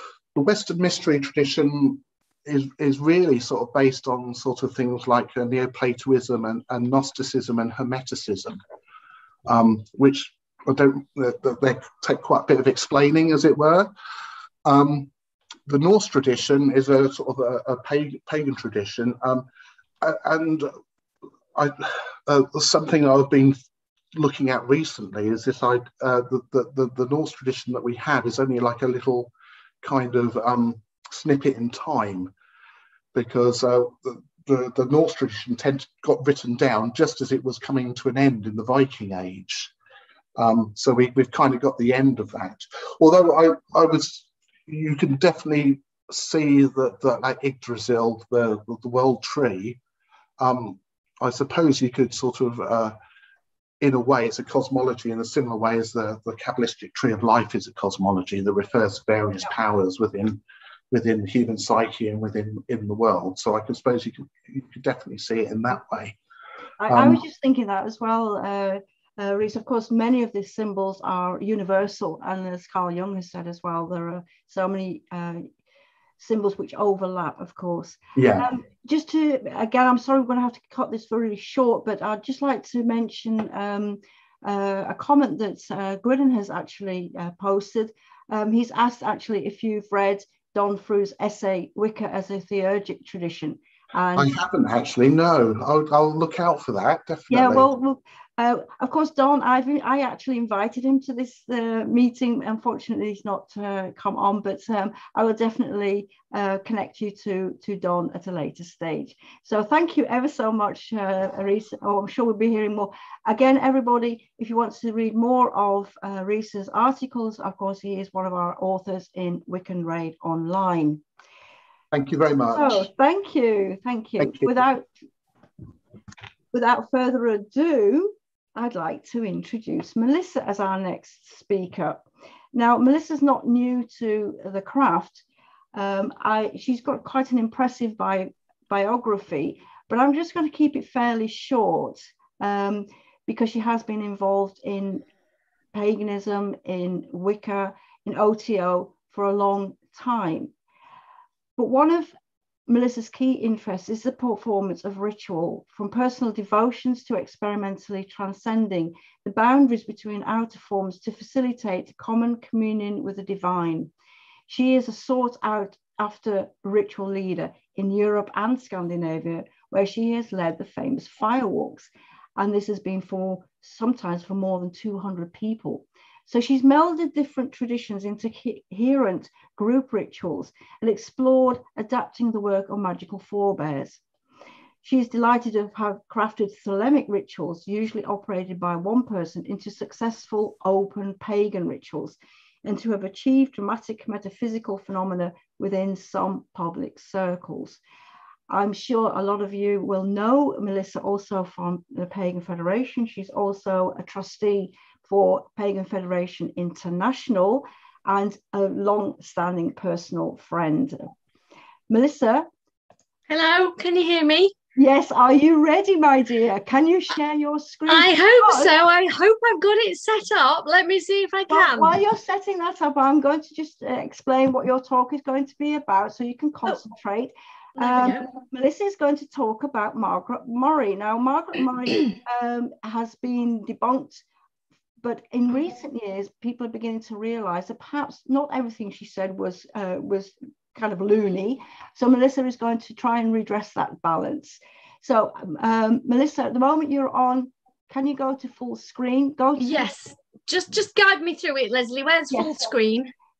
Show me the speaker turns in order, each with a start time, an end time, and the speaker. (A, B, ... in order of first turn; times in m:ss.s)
0:00.3-0:08.6 A
0:09.4-0:13.9 A
0:14.6-0:15.1 A
0:15.6-0:19.5 A
0:20.0-0:20.7 A
0:21.5-0:23.6 A
0:24.1-0:32.3 A
0:33.1-0:39.7 A
0:40.4-0:49.8 A
0:50.4-0:53.0 A
0:53.8-1:06.2 A
1:06.8-1:15.5 B
1:06.9-1:07.2 A
1:16.2-1:34.3 B
1:18.2-1:18.5 A
1:34.2-1:37.7 A
1:37.3-2:01.0 B
2:01.9-2:02.8 A
2:02.5-2:04.9 B
2:04.2-2:04.5 A
2:06.5-2:12.0 B
2:12.5-2:25.0 B
2:25.7-2:30.5 B
2:31.6-2:32.1 B
2:32.7-2:43.9 B
2:44.5-3:04.0 B
3:04.8-3:17.8 B
3:18.5-3:31.1 B
3:31.9-3:32.5 B
3:33.3-3:34.5 C
3:34.8-3:38.7 B
3:37.9-3:42.0 C
3:41.5-3:54.2 B
3:47.8-3:48.2 C
3:55.0-4:09.9 B
4:09.6-4:13.1 C
4:12.3-4:12.6 B